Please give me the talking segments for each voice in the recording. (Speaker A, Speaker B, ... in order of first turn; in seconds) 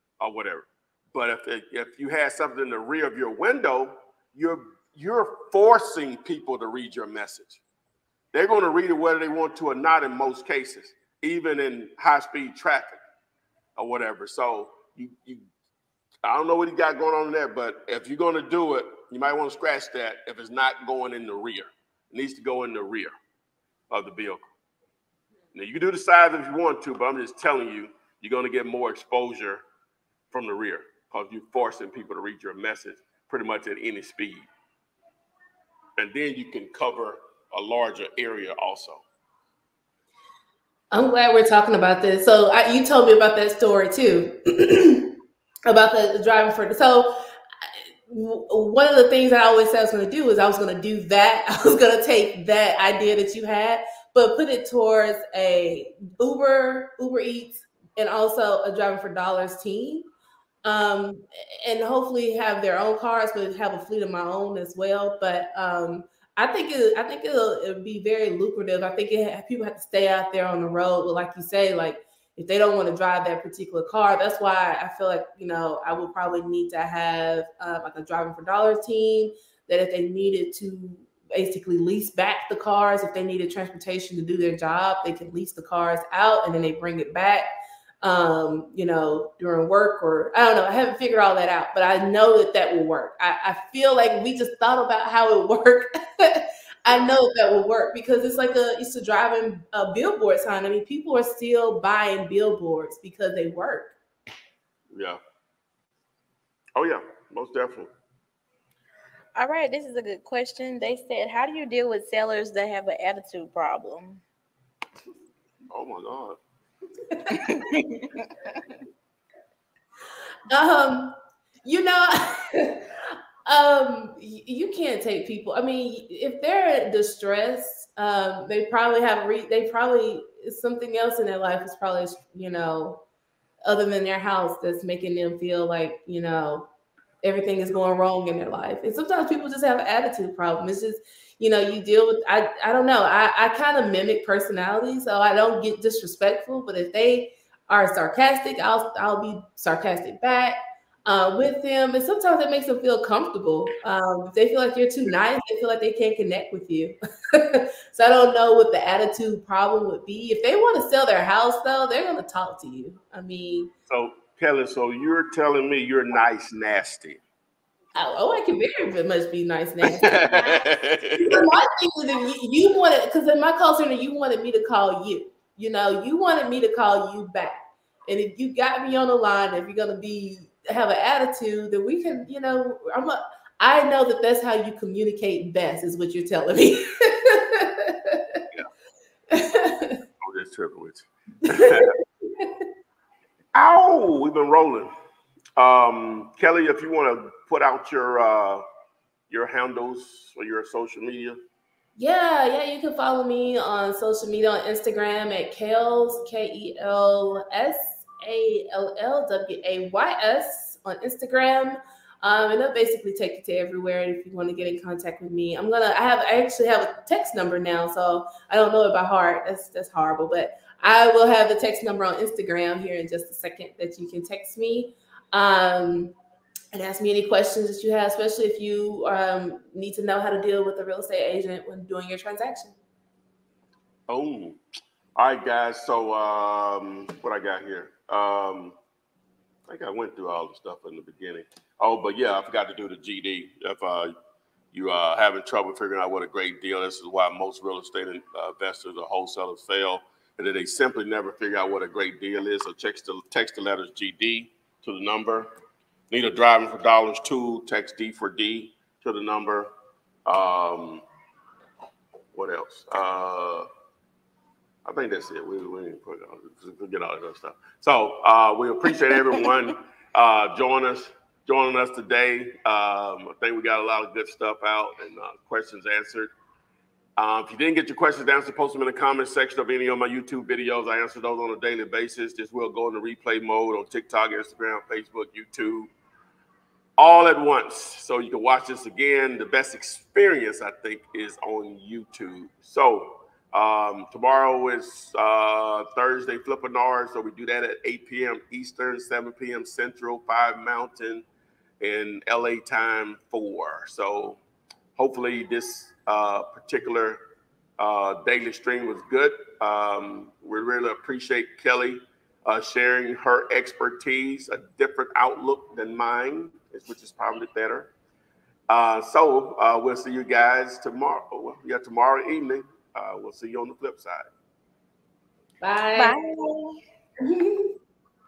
Speaker A: 0.2-7.6, 8.3-13.0, 13.8-15.4, 16.2-23.1, 23.9-24.5, 25.6-29.6, 30.3-34.5, 36.0-39.0, 104.9-105.2, 106.8-107.9, 115.7-116.4, 163.9-167.2, 169.9-171.4, 190.2-191.9, 193.5-194.9, 195.6-198.6, 199.3-201.4, 234.1-234.6, 235.2-238.8, 239.7-244.1, 244.7-255.5, 256.1-259.7, 260.3-261.0, 262.3-263.7, 264.9-276.3, 277.2-285.9, 287.0-301.2, 301.8-304.4, 305.0-307.2, 307.8-317.9, 318.7-324.3
Speaker B: 40.9-45.1, 45.7-47.2, 48.1-60.1, 60.6-87.5, 88.0-104.0, 117.3-117.6, 120.5-133.0, 133.7-136.7, 137.2-163.7, 167.9-188.4, 189.3-190.0, 191.5-192.6, 202.0-226.1, 226.7-232.8, 325.6-326.2, 327.2-327.7
Speaker C: 109.4-114.2, 117.3-118.5, 326.0-326.8